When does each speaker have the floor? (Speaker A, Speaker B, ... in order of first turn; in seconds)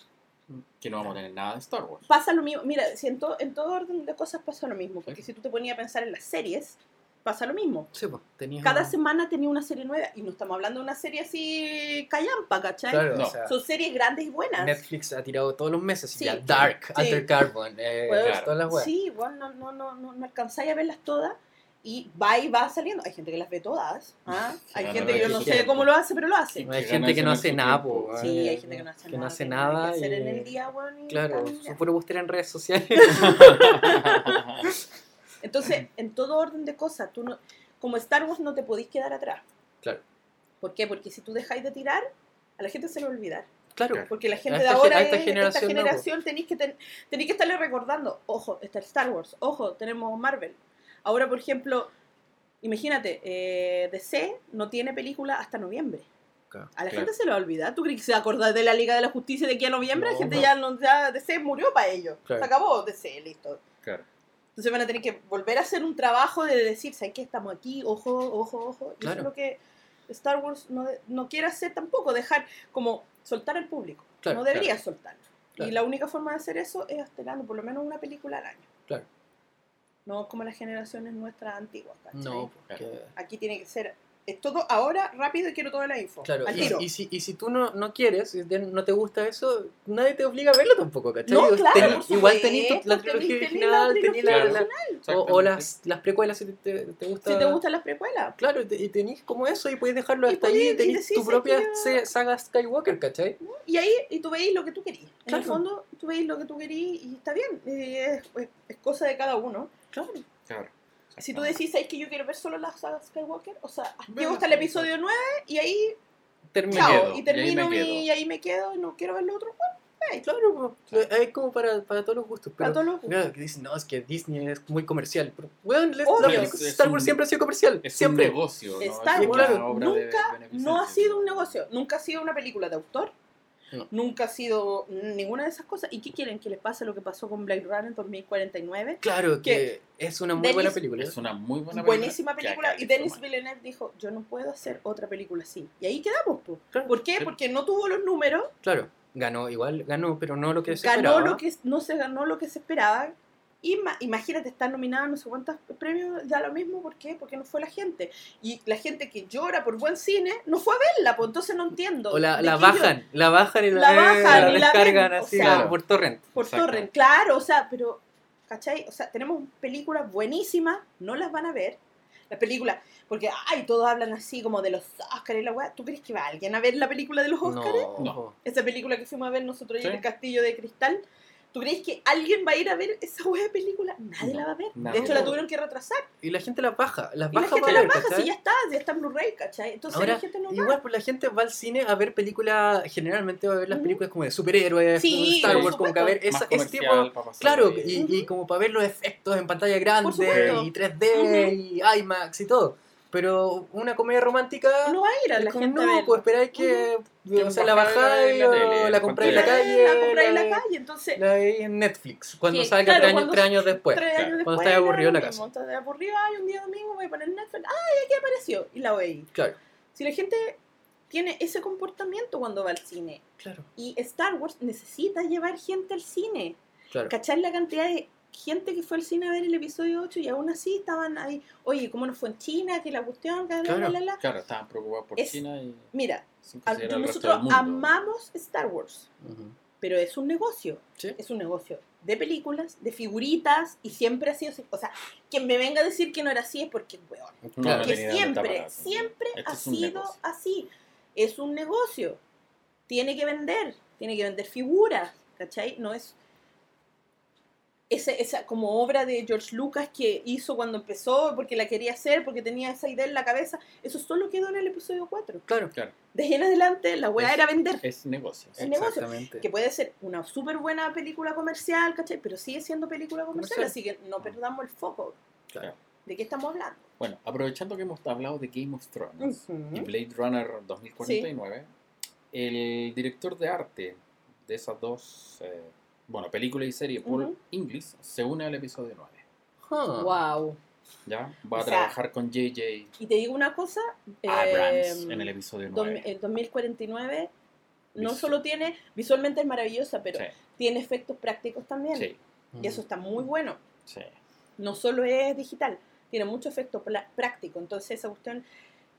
Speaker A: 0.5-1.1, 7.9-8.9, 12.9-13.6, 14.6-18.9, 24.9-25.7, 26.7-30.6, 31.1-34.1, 43.8-46.0, 59.9-60.5, 69.0-69.3, 74.2-74.6, 82.1-83.1, 86.2-97.6, 98.4-103.4, 105.3-105.6, 114.1-114.9, 116.5-117.2, 120.2-128.4, 129.2-129.7, 139.0-141.2, 148.6-151.4, 162.1-166.3, 177.4-178.4, 184.8-185.4, 186.2-188.3, 189.9-210.7, 211.2-215.4, 223.4-223.7, 233.7-234.0, 239.2-239.6, 247.4-248.0, 265.5-265.7, 268.6-269.5, 273.4-273.7, 289.6-290.2, 302.5-302.8
Speaker B: 0.8-2.1, 13.1-13.4, 18.2-18.6, 24.7-25.9, 26.5-28.3, 33.1-34.7, 91.7-92.0, 94.2-95.7, 110.5-111.6, 116.7-118.1, 126.2-127.2, 127.8-131.6, 140.9-143.2, 164.2-164.7, 165.4-165.8, 166.4-166.9, 184.2-185.4, 195.4-198.0, 200.3-200.7, 207.3-209.7, 234.2-235.9, 236.4-238.0, 247.6-250.2, 267.8-268.7, 277.0-281.7, 282.3-289.2, 291.1-292.9, 294.2-296.1, 298.0-298.4, 303.9-304.1
Speaker C: 2.1-7.9, 8.6-14.8, 16.1-17.3, 18.1-26.7, 28.2-31.8, 33.0-34.4, 35.4-39.4, 40.6-43.5, 44.1-51.9, 52.6-56.1, 56.8-63.6, 64.6-78.7, 80.1-82.5, 83.2-86.9, 91.3-95.0, 97.2-98.4, 100.3-102.1, 103.4-110.2, 111.2-116.0, 116.7-120.2, 122.6-123.2, 126.0-126.6, 128.8-133.1, 133.9-139.7, 140.4-140.8, 141.7-148.5, 150.7-163.0, 163.7-165.7, 166.3-171.8, 172.3-177.9, 178.4-186.1, 187.3-190.8, 193.7-194.0, 195.0-196.2, 197.9-198.3, 200.0-201.6, 204.8-206.9, 209.2-211.2, 212.5-219.3, 219.9-223.2, 223.8-234.2, 235.9-239.1, 239.8-252.2, 252.9-256.2, 257.9-265.4, 266.1-267.8, 268.6-275.2, 276.1-276.9, 279.2-279.9, 281.0-281.3, 287.0-287.4, 290.0-290.6, 291.5-291.9, 293.0-297.3, 297.9-303.6, 304.6-308.4